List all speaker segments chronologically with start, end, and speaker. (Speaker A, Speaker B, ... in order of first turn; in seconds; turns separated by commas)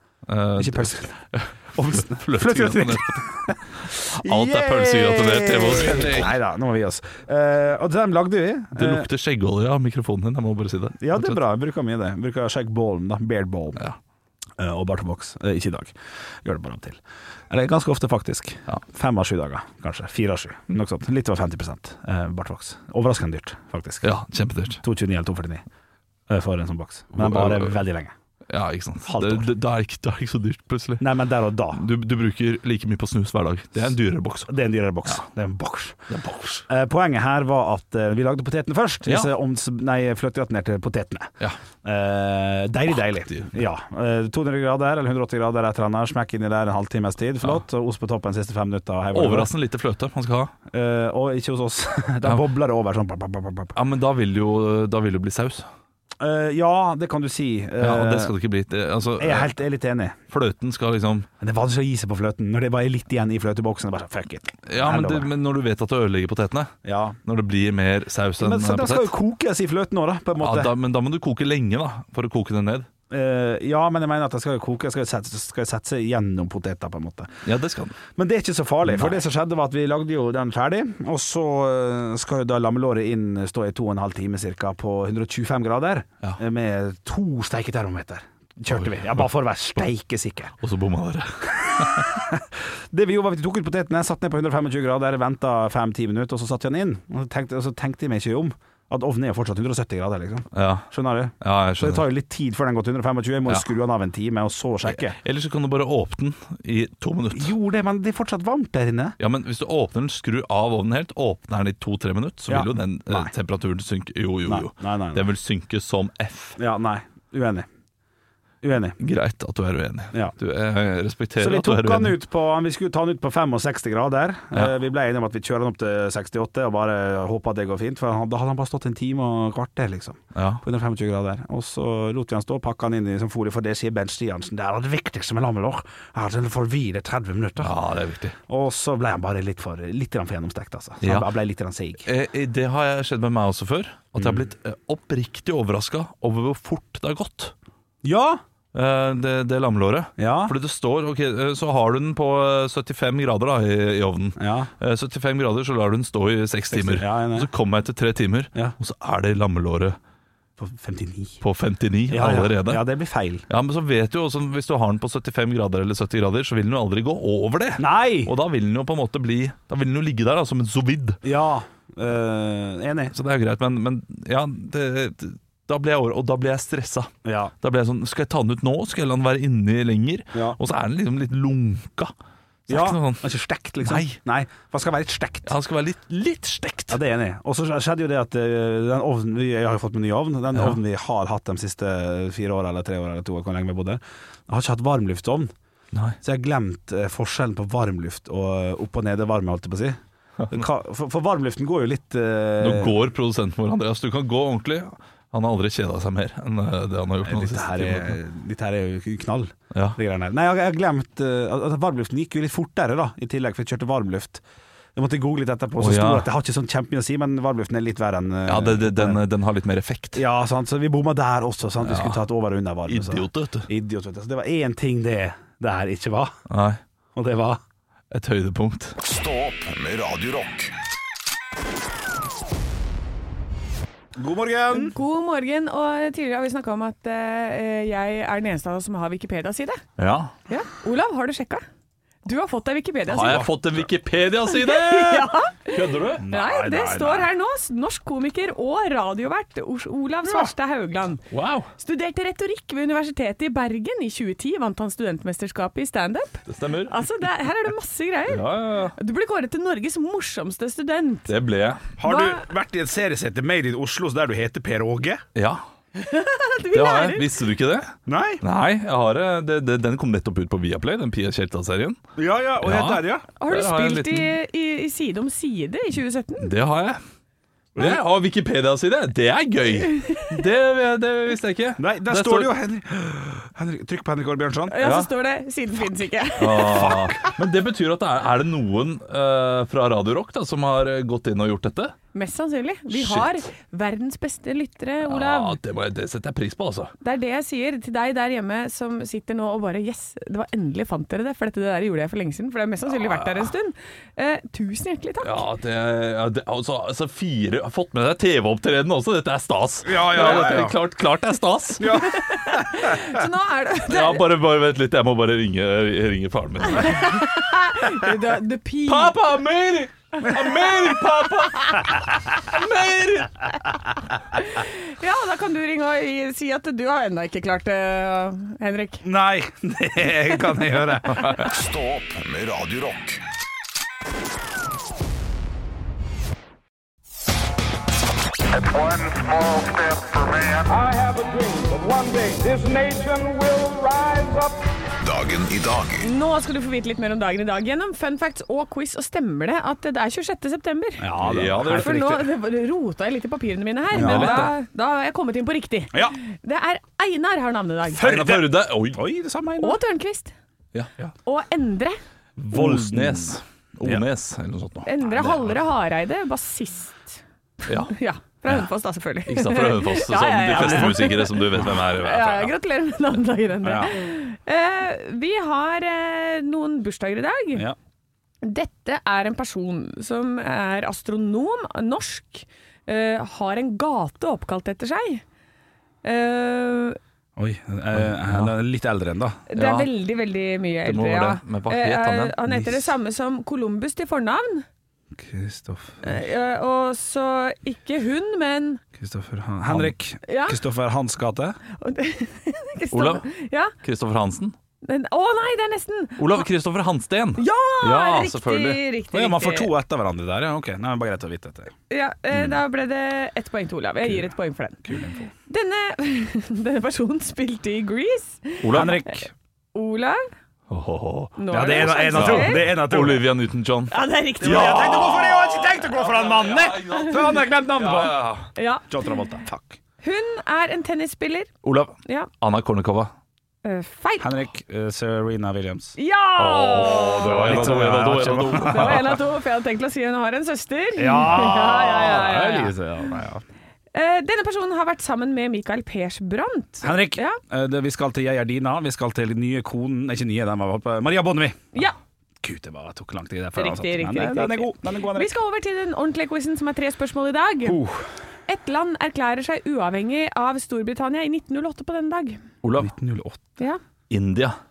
Speaker A: 0.3-6.4, Speaker B: 0.6-1.1, Speaker B: 1.8-9.1, Speaker A: 8.8-11.4, Speaker B: 11.0-13.8, Speaker B: 14.6-24.1, Speaker A: 24.0-24.8, Speaker B: 24.8-25.6, Speaker B: 26.3-28.1, Speaker A: 27.1-27.8, Speaker A: 28.5-31.1, Speaker B: 29.1-29.5, Speaker B: 31.0-31.9, Speaker A: 31.7-34.5, Speaker B: 34.5-36.0, Speaker A: 36.1-36.7, Speaker B: 36.7-41.3, Speaker B: 41.8-49.5, Speaker A: 49.1-50.5, Speaker B: 50.7-53.7, Speaker A: 53.8-55.7, Speaker B: 56.2-58.3, Speaker A: 57.8-59.5, Speaker B: 59.2-60.2, Speaker A: 60.3-61.3, Speaker B: 61.4-65.3, Speaker A: 64.7-66.7, Speaker B: 66.8-67.2, Speaker A: 67.2-69.1, Speaker B: 68.4-70.7, Speaker A: 70.4-72.9, Speaker B: 73.1-77.4, Speaker A: 77.5-78.0, Speaker B: 78.1-90.5, Speaker A: 78.8-79.2, Speaker A: 88.7-89.2, Speaker A: 90.6-92.1, Speaker B: 91.7-105.2, Speaker A: 100.5-100.9, Speaker A: 101.4-102.0, Speaker A: 104.9-107.5, Speaker B: 107.3-109.2, Speaker A: 109.2-116.6, Speaker B: 112.5-113.3, Speaker B: 114.5-115.3, Speaker B: 116.6-117.7, Speaker B: 118.6-119.0, Speaker A: 119.0-122.2, Speaker B: 121.4-137.7, Speaker A: 130.3-130.6, Speaker A: 137.6-138.4, Speaker B: 138.5-142.1, Speaker A: 141.0-141.3, Speaker A: 142.1-147.5, Speaker B: 144.2-144.5, Speaker B: 148.0-148.4, Speaker A: 148.7-160.0, Speaker B: 150.2-150.6, Speaker B: 154.4-154.7, Speaker B: 156.7-157.5, Speaker B: 160.6-161.4, Speaker A: 161.4-162.8, Speaker B: 162.1-163.4, Speaker A: 163.5-171.2, Speaker B: 167.8-168.3, Speaker B: 171.2-173.2, Speaker A: 173.1-182.1, Speaker B: 177.2-177.5, Speaker A: 182.7-183.3, Speaker B: 182.7-185.5, Speaker A: 183.8-184.2, Speaker A: 185.5-187.0, Speaker B: 186.9-195.5, Speaker A: 195.9-196.2, Speaker B: 196.2-200.0, Speaker B: 200.5-203.0, Speaker A: 202.6-208.2, Speaker B: 207.2-214.4, Speaker A: 209.7-210.0, Speaker B: 214.9-219.2, Speaker A: 215.8-216.3, Speaker A: 218.5-220.2, Speaker B: 220.1-226.3, Speaker A: 221.8-222.2, Speaker A: 222.9-223.7, Speaker A: 226.5-226.8, Speaker B: 227.2-227.6, Speaker A: 228.1-229.0, Speaker C: 229.0-230.7, Speaker B: 234.2-234.9, Speaker D: 234.7-239.8, Speaker A: 240.0-240.3, Speaker D: 240.5-241.7, Speaker D: 242.2-243.5, Speaker A: 243.1-246.2, Speaker B: 243.2-243.5, Speaker D: 244.5-251.2, Speaker B: 246.2-247.3, Speaker A: 251.3-251.7, Speaker D: 251.8-261.3, Speaker A: 256.5-257.0, Speaker A: 258.3-258.9, Speaker A: 261.3-261.9, Speaker B: 262.0-265.2, Speaker D: 262.0-262.5, Speaker A: 265.4-265.6, Speaker D: 266.0-267.4, Speaker A: 266.7-272.0, Speaker B: 268.1-268.4, Speaker B: 272.2-273.3, Speaker A: 272.6-274.3, Speaker D: 273.4-276.5, Speaker A: 276.4-277.0, Speaker B: 277.8-278.0, Speaker A: 277.8-282.5, Speaker D: 279.9-280.3, Speaker B: 281.8-284.9, Speaker D: 284.7-286.9, Speaker A: 284.8-285.1, Speaker A: 286.4-291.9, Speaker B: 286.6-287.3, Speaker D: 292.1-295.6, Speaker A: 292.9-293.3, Speaker A: 295.1-296.9, Speaker D: 297.0-305.4, Speaker A: 303.0-303.5, Speaker A: 305.2-312.1, Speaker B: 309.9-310.8, Speaker B: 311.8-312.9, Speaker D: 311.9-314.2, Speaker A: 313.9-317.4, Speaker D: 316.7-319.2, Speaker A: 318.9-323.6, Speaker D: 320.3-320.7, Speaker D: 324.3-329.0, Speaker B: 329.0-331.5, Speaker C: 331.3-333.2, Speaker E: 338.6-344.6, Speaker C: 345.0-346.0, Speaker D: 346.0-351.1, Speaker B: 351.0-352.2, Speaker A: 351.2-352.2, Speaker D: 351.6-358.2, Speaker B: 353.9-354.5, Speaker A: 353.9-354.5, Speaker B: 358.0-359.8, Speaker A: 358.0-359.0, Speaker D: 359.6-360.3, Speaker A: 360.7-361.1, Speaker D: 361.2-362.0, Speaker A: 362.4-365.5, Speaker B: 362.5-364.1, Speaker D: 364.9-377.7, Speaker A: 367.7-367.9, Speaker A: 369.3-372.5, Speaker B: 370.5-371.0, Speaker B: 373.6-373.9, Speaker D: 378.4-385.2, Speaker D: 386.0-387.0, Speaker B: 387.4-389.4, Speaker A: 387.9-388.5, Speaker D: 389.5-394.7, Speaker A: 389.6-389.9, Speaker A: 390.9-392.4, Speaker B: 395.2-396.2, Speaker D: 396.0-398.8, Speaker B: 399.0-401.6, Speaker A: 399.7-399.9, Speaker D: 400.3-400.6, Speaker D: 401.8-403.7, Speaker A: 402.9-403.3, Speaker A: 403.8-404.6, Speaker D: 404.8-406.5, Speaker A: 406.2-408.8, Speaker D: 407.4-409.7, Speaker B: 409.1-411.7, Speaker D: 411.9-414.8, Speaker B: 414.9-415.3, Speaker D: 415.5-418.9, Speaker A: 418.6-419.0, Speaker B: 418.7-419.3, Speaker D: 419.8-420.2, Speaker A: 420.7-428.5, Speaker D: 421.4-422.7, Speaker B: 421.5-423.3, Speaker D: 423.9-425.1, Speaker B: 424.4-428.2, Speaker D: 428.6-429.0, Speaker B: 428.9-429.8, Speaker D: 430.0-431.5, Speaker A: 431.6-433.1, Speaker D: 432.1-432.3, Speaker D: 433.6-434.3, Speaker B: 434.2-436.0, Speaker D: 436.0-437.8, Speaker A: 436.4-439.2, Speaker B: 437.1-439.0, Speaker D: 438.6-442.7, Speaker B: 441.0-443.4, Speaker D: 443.9-447.4, Speaker B: 446.8-451.7, Speaker B: 452.4-455.3, Speaker D: 453.6-457.8, Speaker B: 457.6-458.1, Speaker D: 458.5-462.4, Speaker A: 462.6-462.9, Speaker B: 462.8-463.4, Speaker A: 464.1-464.6